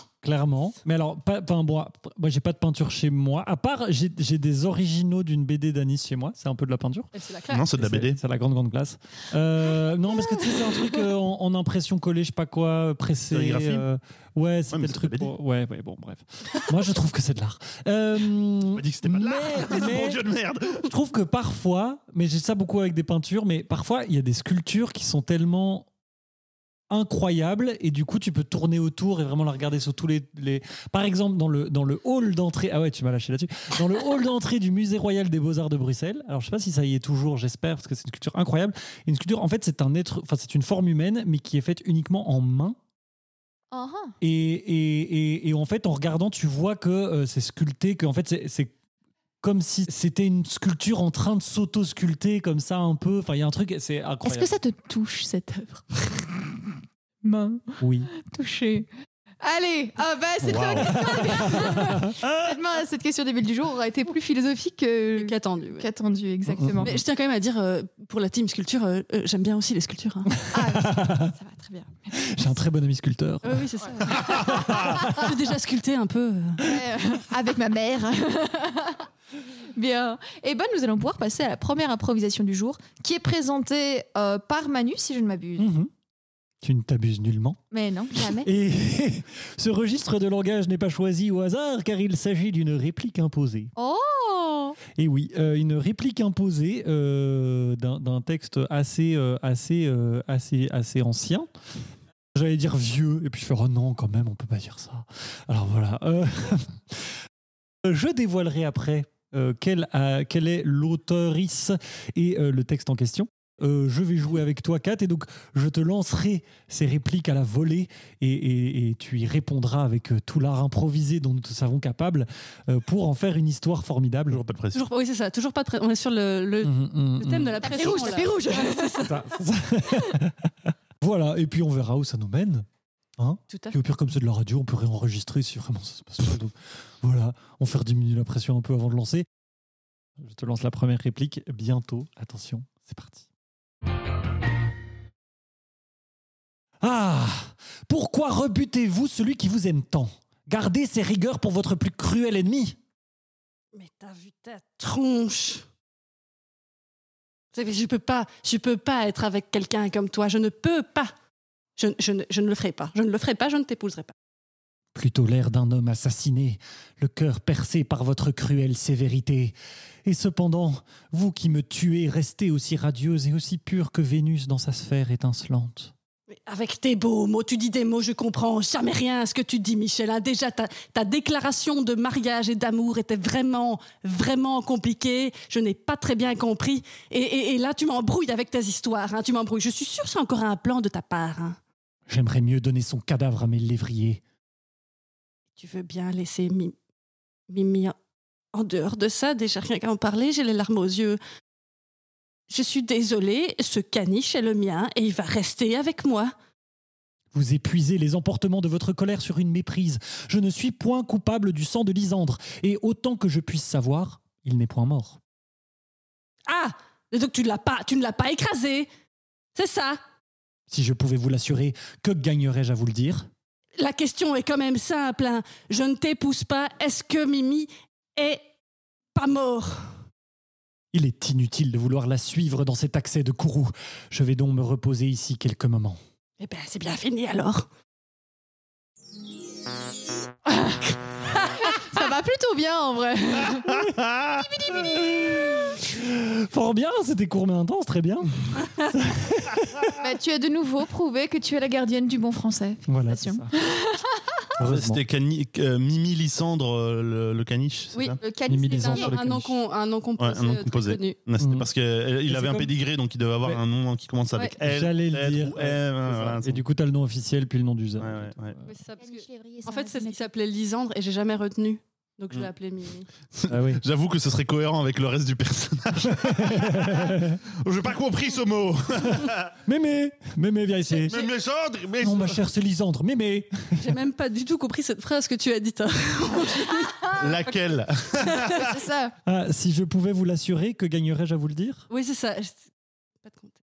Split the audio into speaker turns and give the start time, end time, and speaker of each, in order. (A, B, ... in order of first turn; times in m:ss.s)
0:00.2-0:07.1 A
0:07.1-0:07.6 B
0:07.5-0:08.2 C
0:07.7-0:20.2 A
0:13.3-0:13.8 C
0:14.7-0:15.3 C
0:18.8-0:20.9 C
0:20.8-0:25.9 A
0:26.9-0:42.8 A
0:43.7-0:44.2 D
0:44.2-0:48.7 A
0:49.4-0:54.5 A
0:54.2-0:58.9 D
0:57.8-0:58.1 A
0:59.4-1:07.0 D
1:00.4-1:01.6 C
1:00.8-1:02.4 A
1:05.2-1:05.8 B
1:06.5-1:07.0 A
1:06.8-1:10.3 B
1:10.4-1:11.3 A
1:10.5-1:12.5 D
1:12.1-1:15.3 A
1:13.4-1:16.8 B
1:16.6-1:19.1 D
1:19.7-1:25.7 D
1:25.6-1:25.9 A
1:26.6-1:27.6 A
1:27.7-1:28.5 D
1:28.4-1:33.7 A
1:33.8-1:34.8 D
1:34.9-1:41.5 A
1:42.3-1:47.0 A
1:47.8-2:04.4 A
2:04.3-2:04.8 C
2:04.7-2:09.2 B
2:06.6-2:07.9 A
2:07.5-2:09.1 D
2:09.0-2:10.5 A
2:11.0-2:12.6 A
2:13.2-2:19.2 A
2:13.5-2:13.8 B
2:20.2-2:23.2 A
2:26.8-2:32.8 A
2:33.7-2:35.6 B
2:37.5-2:41.1 B
2:41.8-2:44.1 B
2:44.9-2:49.5 A
2:50.0-2:55.9 A
2:56.3-3:11.6 B
3:12.1-3:14.2 A
3:15.6-3:16.8 B
3:17.5-3:17.9 B
3:18.5-3:21.2 B
3:22.5-3:26.3 B
3:27.3-3:35.2 A
3:36.5-3:38.9 B
3:39.5-3:40.0 B
3:40.7-3:43.3 A
3:43.8-3:48.4 B
3:49.1-3:49.9 B
3:50.9-3:56.0 A
3:56.4-3:57.7 B
4:00.4-4:01.0 D
4:01.5-4:05.8 D
4:03.4-4:04.5 C
4:05.0-4:10.0 A
4:10.0-4:14.4 D
4:12.9-4:13.5 A
4:14.6-4:15.0 A
4:14.6-4:18.2 C
4:17.9-4:21.2 B
4:18.2-4:19.1 D
4:18.5-4:19.5 A
4:20.2-4:26.6 C
4:21.4-4:21.7 A
4:22.2-4:22.7 A
4:24.6-4:28.7 A
4:28.0-4:28.5 C
4:28.6-4:33.1 B
4:29.0-4:30.3 D
4:33.3-4:39.5 C
4:33.5-4:33.8 A
4:36.0-4:37.4 A
4:39.6-4:41.2 A
4:41.0-4:42.4 C
4:42.0-4:43.9 A
4:43.8-4:47.6 B
4:47.1-4:48.8 C
4:48.2-4:48.6 B
4:48.5-4:49.2 D
4:49.2-4:51.8 A
4:51.9-4:52.6 B
4:53.2-4:53.6 B